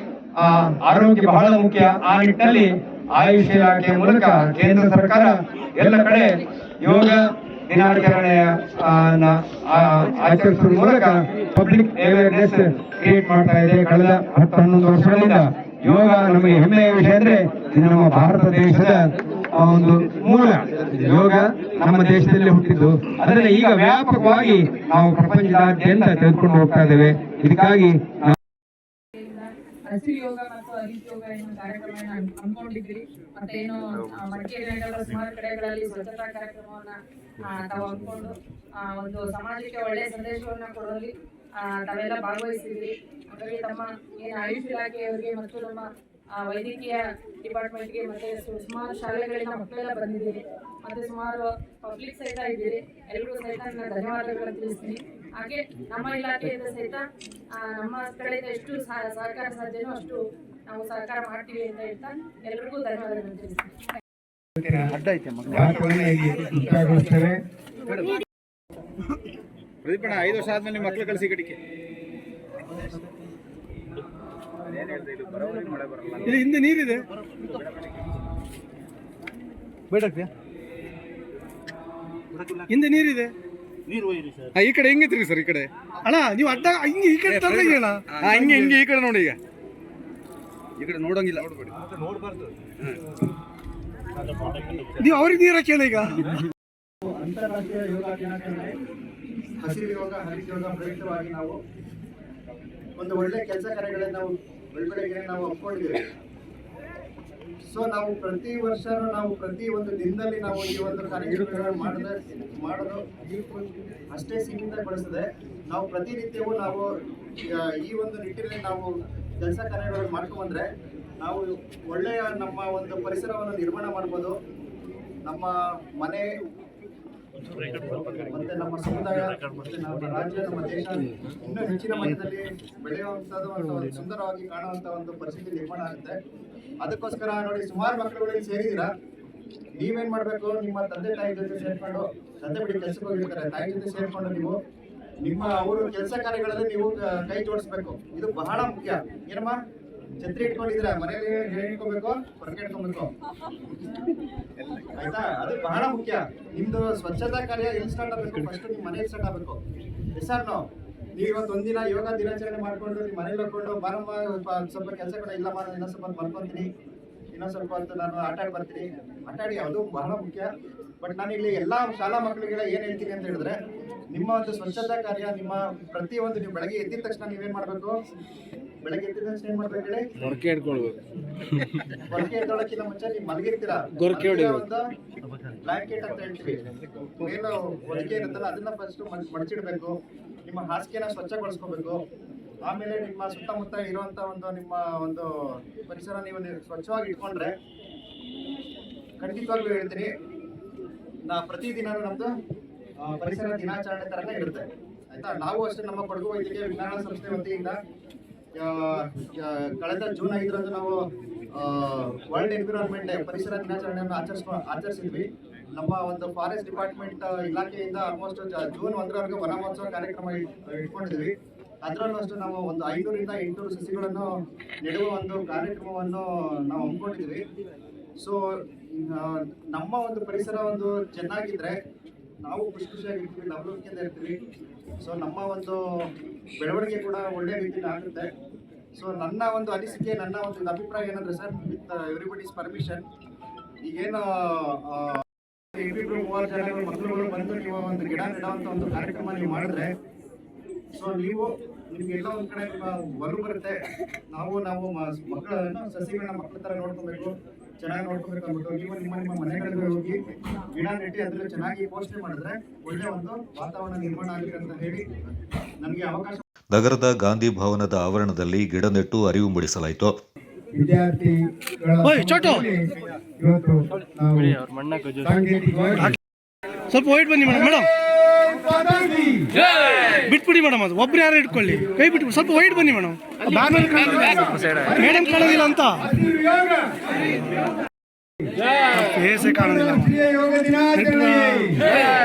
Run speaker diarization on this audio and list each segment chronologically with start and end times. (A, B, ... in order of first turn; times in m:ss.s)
0:00.4-0:28.3 A
0:29.1-0:57.0 B
0:57.6-1:03.7 B
1:04.6-1:05.0 A
1:05.5-1:07.4 A
1:16.1-1:17.0 C
1:19.9-1:20.3 C
1:22.6-1:23.3 C
1:24.5-1:28.8 C
1:35.0-1:36.4 C
1:37.0-1:38.7 D
1:39.6-1:41.6 D
1:43.0-1:46.0 D
1:47.7-1:53.0 D
1:54.1-1:56.9 D
1:57.4-2:00.7 D
2:01.2-2:04.4 D
2:05.2-2:06.3 D
2:07.6-2:16.2 D
2:16.8-2:18.9 D
2:19.8-2:24.6 D
2:25.2-2:29.6 D
2:30.2-2:33.1 D
2:34.9-2:39.6 D
2:40.1-2:46.7 D
2:47.3-2:50.5 D
2:51.0-2:53.6 D
2:54.1-2:57.9 D
2:58.8-3:00.0 D
3:00.5-3:00.8 C
3:02.0-3:04.8 D
3:05.6-3:12.0 D
3:12.6-3:17.6 D
3:19.2-3:20.1 D
3:21.2-3:22.3 D
3:23.0-3:27.8 D
3:28.6-3:44.3 D
3:44.8-3:47.4 D
3:48.9-3:51.8 D
3:52.4-3:54.4 D
3:55.0-3:58.3 D
3:59.0-4:03.0 D
4:03.8-4:05.2 D
4:05.7-4:09.9 D
4:10.9-4:20.2 D
4:20.7-4:25.0 D
4:25.8-4:26.4 D
4:26.7-4:30.1 E
4:30.7-4:34.6 A
4:32.0-4:32.6 C
4:35.2-4:36.0 A
4:36.9-4:37.9 C
4:38.0-4:39.5 A
4:40.2-4:46.1 C
4:46.1-4:46.9 A
4:48.9-4:50.2 C
4:49.4-4:51.8 A
4:50.9-4:51.6 C